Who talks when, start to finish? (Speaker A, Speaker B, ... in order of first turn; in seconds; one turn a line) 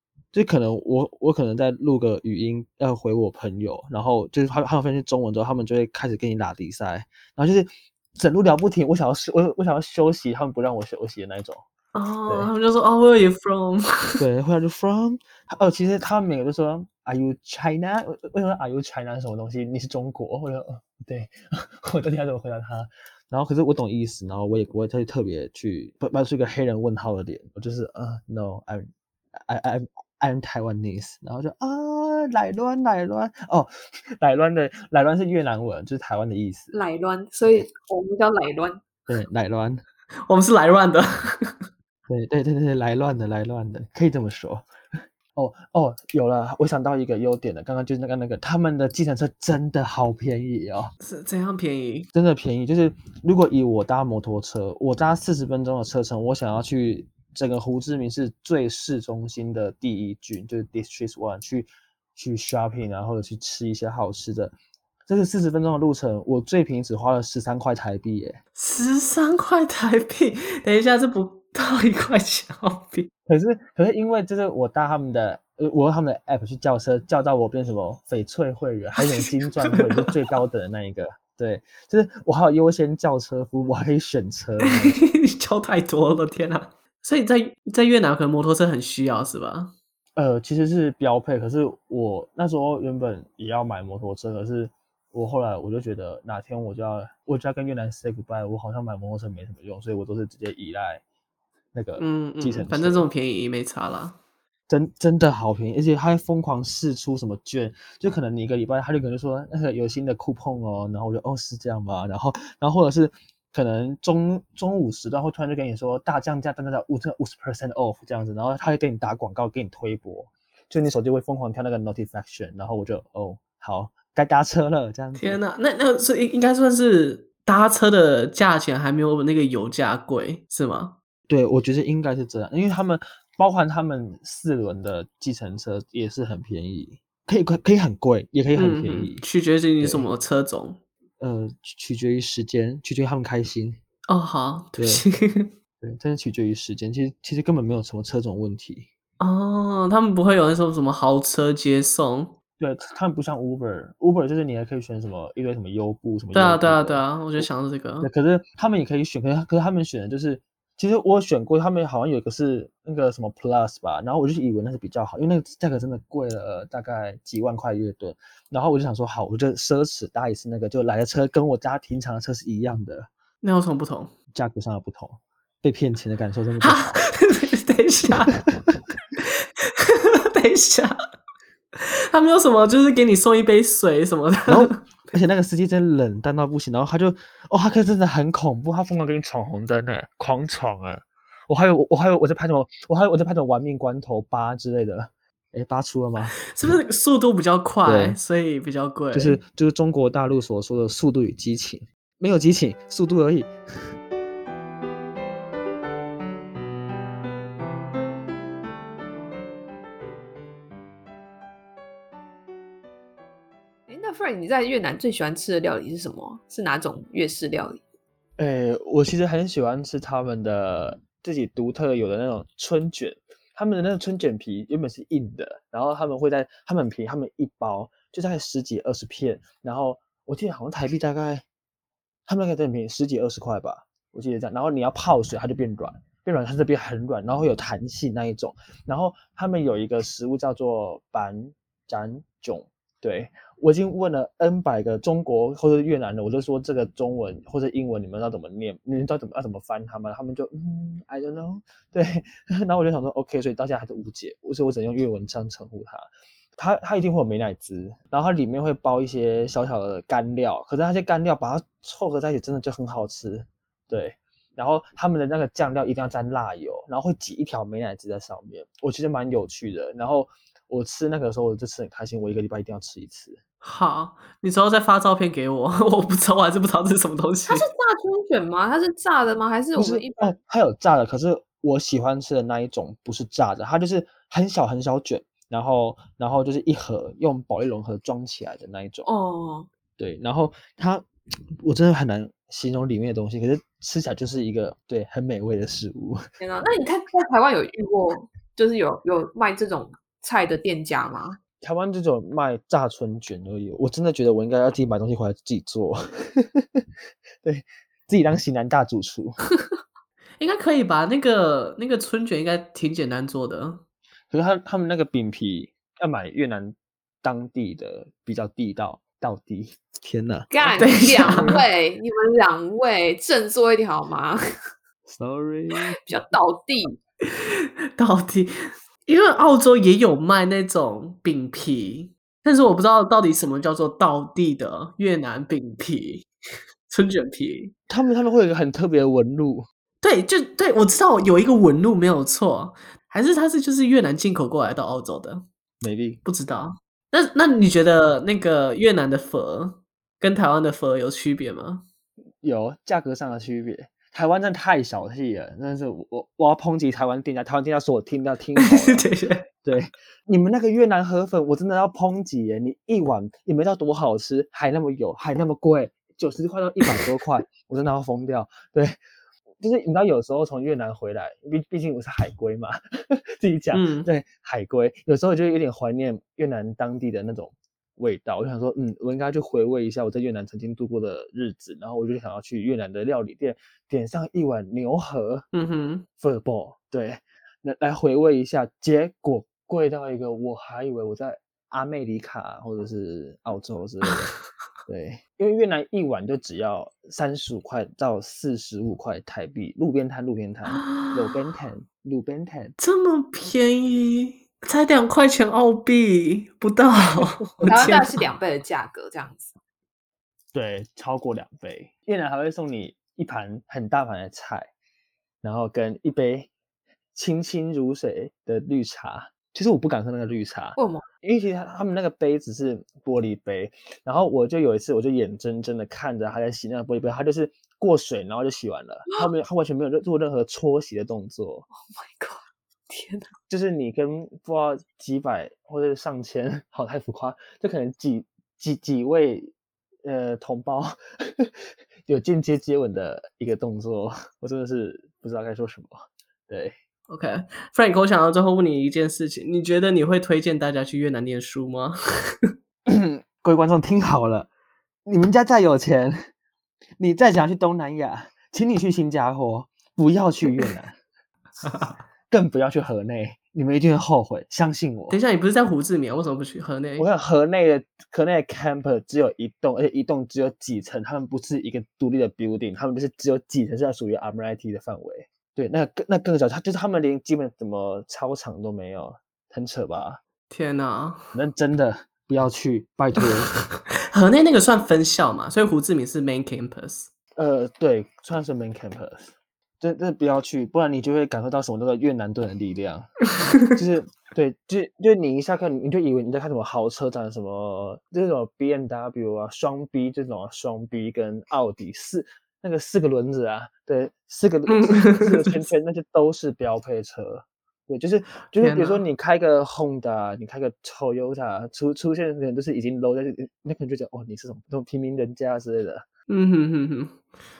Speaker A: 0.3-11.6
Speaker B: 11.9-14.2
Speaker A: 14.2-28.9
Speaker A: 29.5-36.7
Speaker C: 36.7-38.8
Speaker A: 39.1-39.8
Speaker B: 40.3-41.6
Speaker A: 42.1-44.6
Speaker A: 45.3-50.9
Speaker B: 51.0-52.1
Speaker A: 52.1-64.5
Speaker A: 65.1-68.4
Speaker B: 68.5-73.1
Speaker A: 73.3-85.0
Speaker B: 79.0-80.1
Speaker B: 84.7-89.7
Speaker A: 90.2-101.0
Speaker A: 101.7-103.1
Speaker B: 102.0-104.2
Speaker A: 104.7-125.4
Speaker B: 125.2-131.0
Speaker A: 131.3-139.2
Speaker B: 138.5-140.8
Speaker A: 139.8-140.1
Speaker A: 141.2-143.8
Speaker B: 144.1-145.5
Speaker A: 144.8-145.0
Speaker A: 145.8-148.9
Speaker B: 149.2-152.3
Speaker A: 152.6-157.5
Speaker B: 156.3-158.1
Speaker A: 158.0-173.1
Speaker B: 173.4-174.1
Speaker A: 174.3-177.0
Speaker B: 176.6-178.4
Speaker B: 179.2-181.0
Speaker B: 181.8-184.8
Speaker A: 184.5-196.4
Speaker B: 196.4-199.4
Speaker A: 197.8-198.2
Speaker A: 199.1-203.5
Speaker C: 213.9-217.8
Speaker A: 218.4-231.4
Speaker A: 232.3-256.0
Speaker A: 256.6-273.4
Speaker B: 273.6-277.6
Speaker C: 277.5-280.4
Speaker A: 279.8-289.1
Speaker C: 289.1-289.7
Speaker A: 290.0-291.1
Speaker A: 291.6-296.2
Speaker C: 296.4-301.4
Speaker A: 301.6-306.8
Speaker A: 307.4-309.4
Speaker B: 310.4-313.8
Speaker A: 314.3-321.6
Speaker C: 320.5-324.4
Speaker B: 320.8-321.6
Speaker A: 325.1-326.0
Speaker C: 325.9-326.9
Speaker B: 327.3-328.5
Speaker B: 329.1-336.3
Speaker B: 336.9-337.7
Speaker A: 337.9-339.7
Speaker B: 340.0-345.4
Speaker A: 345.8-346.2
Speaker B: 346.2-351.8
Speaker A: 352.4-359.1
Speaker B: 358.6-359.4
Speaker A: 359.6-369.0
Speaker A: 369.6-385.4
Speaker B: 373.7-374.1
Speaker B: 385.5-386.1
Speaker A: 386.2-394.3
Speaker A: 394.9-402.7
Speaker B: 400.7-401.3
Speaker B: 402.8-408.2
Speaker A: 407.2-407.9
Speaker C: 407.7-409.6
Speaker A: 410.5-414.7
Speaker A: 415.4-416.5
Speaker A: 417.1-431.7
Speaker C: 420.8-421.1
Speaker C: 431.7-433.3
Speaker A: 433.5-439.5
Speaker A: 440.0-441.5
Speaker A: 442.1-446.7
Speaker B: 447.1-452.5
Speaker A: 452.9-454.5
Speaker A: 455.0-456.3
Speaker A: 457.0-461.0
Speaker A: 462.3-465.2
Speaker B: 465.1-467.1
Speaker A: 467.0-480.2
Speaker B: 480.5-481.2
Speaker A: 481.3-483.5
Speaker B: 484.1-487.1
Speaker A: 487.4-493.1
Speaker A: 493.7-516.0
Speaker B: 504.7-505.6
Speaker B: 508.6-509.0
Speaker B: 516.3-517.2